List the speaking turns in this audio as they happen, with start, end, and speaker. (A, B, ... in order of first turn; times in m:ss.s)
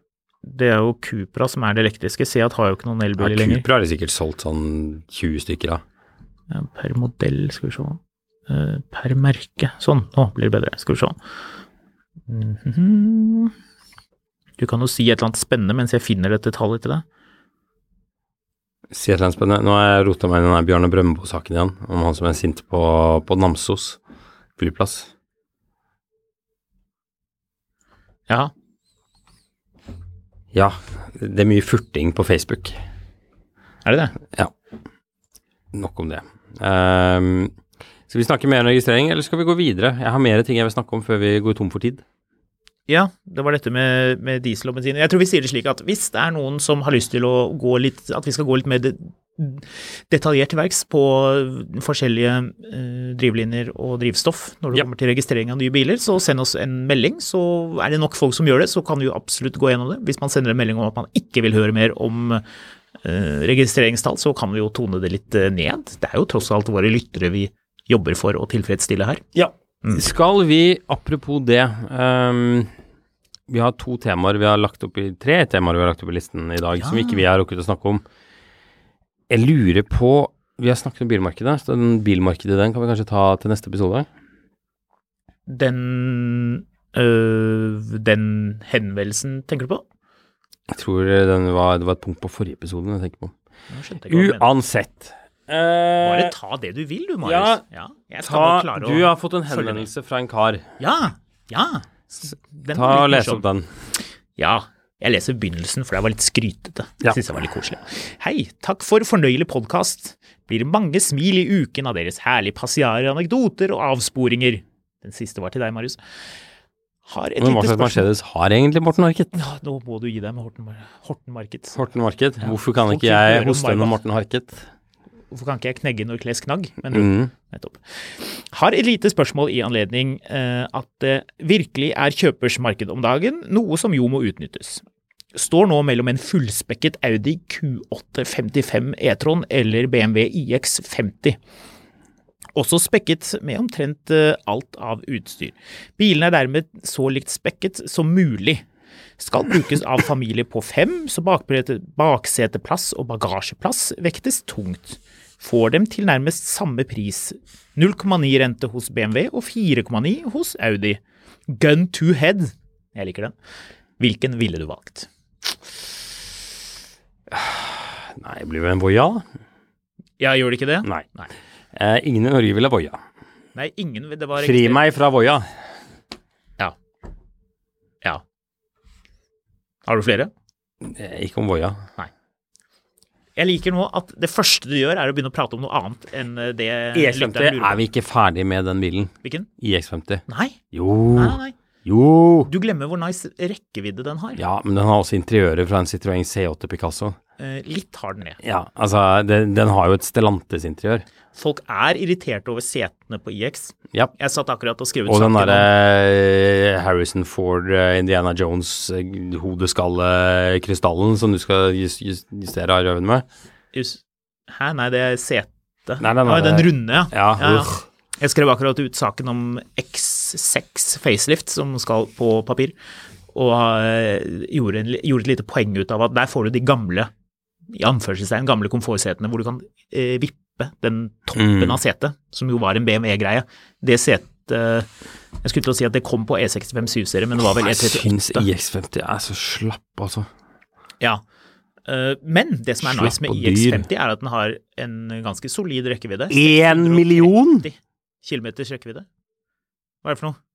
0:00.4-0:03.7 A
0:03.2-0:05.8 B
0:06.5-0:11.2 A
0:12.3-0:13.5 A
0:14.6-0:17.0 A
0:18.9-0:24.0 B
0:24.6-0:25.1 B
0:30.5-0:32.8 B
0:33.8-0:34.2 A
0:35.7-0:37.5 B
0:38.1-0:42.0 B
0:42.9-1:02.4 A
1:03.0-1:09.2 A
1:09.3-1:12.7 B
1:13.5-1:18.0 B
1:16.8-1:17.2 A
1:19.3-1:24.1 B
1:25.5-1:29.8 A
1:30.7-1:33.3 B
1:33.7-1:34.5 A
1:34.1-1:36.3 B
1:36.0-1:39.9 A
1:37.2-1:37.6 B
1:38.2-1:40.6 B
1:40.8-1:43.5 A
1:42.7-1:43.7 B
1:44.4-1:56.0 A
1:57.0-1:58.1 A
1:57.4-1:59.4 B
1:59.3-2:01.8 A
2:01.7-2:04.7 B
2:02.4-2:04.0 A
2:05.3-2:21.4 A
2:06.9-2:07.3 B
2:22.6-2:28.7 A
2:29.2-2:43.4 A
2:44.0-2:45.1 A
2:47.3-2:49.2 B
2:50.2-2:51.3 A
2:51.7-2:53.0 B
2:53.6-2:54.8 A
2:54.4-2:55.5 B
2:59.8-3:00.3 A
3:00.8-3:01.8 B
3:03.4-3:07.9 A
3:06.9-3:12.5 B
3:09.2-3:09.5 A
3:10.3-3:10.6 A
3:11.1-3:11.6 A
3:12.5-3:14.4 A
3:14.4-3:17.2 B
3:17.4-3:18.4 A
3:18.4-3:21.1 B
3:21.3-3:25.7 A
3:25.1-3:33.3 B
3:33.7-3:42.8 A
3:36.0-3:37.8 B
3:43.3-3:47.1 A
3:47.7-3:54.9 A
3:51.4-3:51.8 B
3:55.4-3:58.5 A
3:57.6-4:00.3 B
4:01.9-4:09.1 A
4:02.8-4:03.9 B
4:06.3-4:07.7 B
4:10.0-4:10.4 A